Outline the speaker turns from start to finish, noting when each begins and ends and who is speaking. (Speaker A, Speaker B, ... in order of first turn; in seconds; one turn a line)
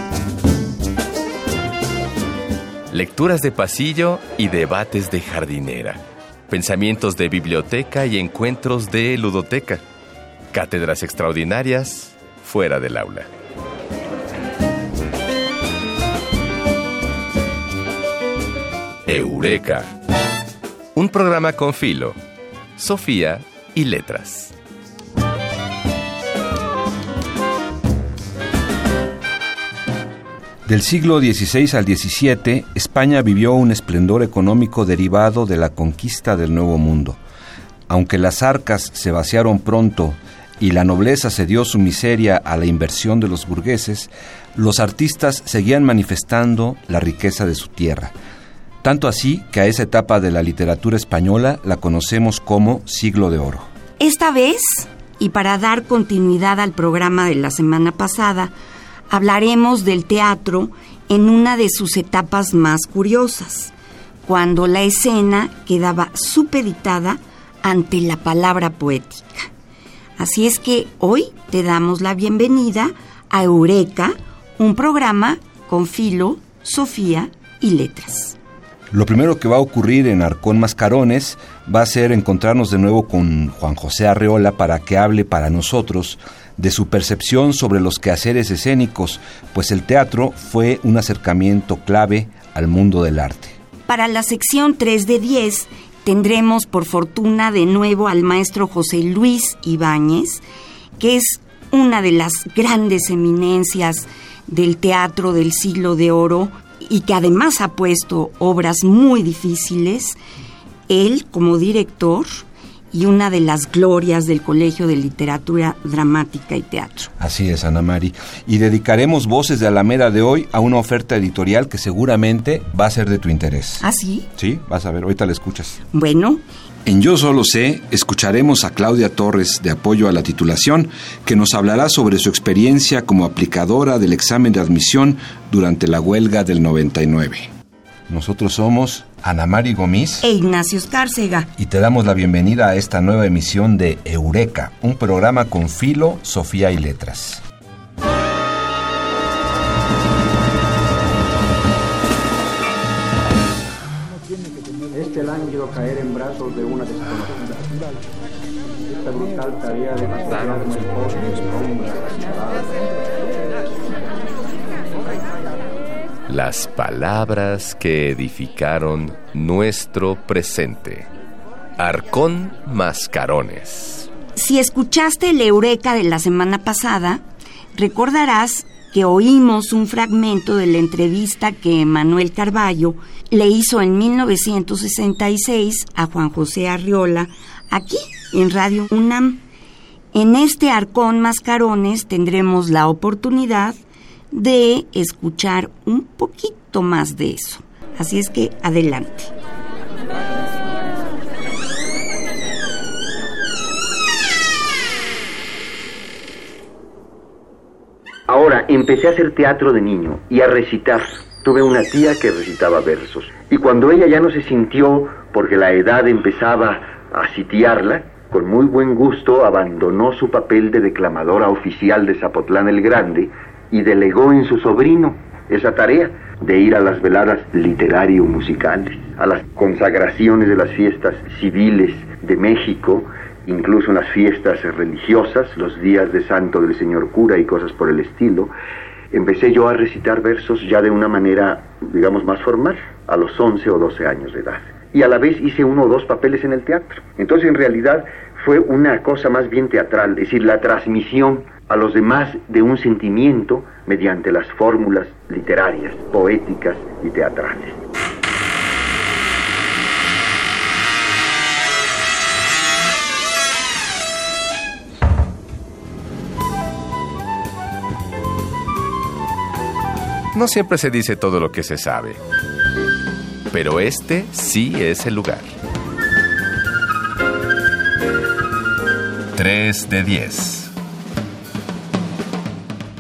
Speaker A: 2.9-9.8
Speaker A: 10.5-13.3
Speaker A: 19.1-19.9
Speaker A: 20.9-22.1
Speaker A: 22.8-24.5
Speaker B: 30.6-37.2
Speaker B: 37.9-48.1
Speaker B: 48.8-53.7
Speaker C: 54.0-58.5
Speaker C: 59.1-63.7
Speaker C: 64.2-69.5
Speaker C: 70.2-78.3
Speaker B: 78.9-93.5
Speaker C: 93.9-100.4
Speaker C: 101.0-110.2
Speaker C: 110.9-117.1
Speaker B: 117.2-123.8
Speaker C: 123.8-124.3
Speaker B: 124.4-125.8
Speaker C: 125.9-126.4
Speaker B: 126.8-137.5
Speaker B: 138.1-140.2
Speaker C: 140.2-141.5
Speaker B: 141.6-147.4
Speaker D: 154.9-157.8
Speaker D: 158.9-162.8
Speaker A: 166.3-171.1
Speaker A: 171.8-174.1
Speaker C: 174.3-177.2
Speaker C: 177.7-189.4
Speaker C: 190.1-193.8
Speaker C: 194.3-199.3
Speaker E: 208.3-238.5
Speaker E: 239.1-257.8
Speaker A: 270.3-272.2
Speaker A: 273.5-275.5
Speaker A: 279.3-280.7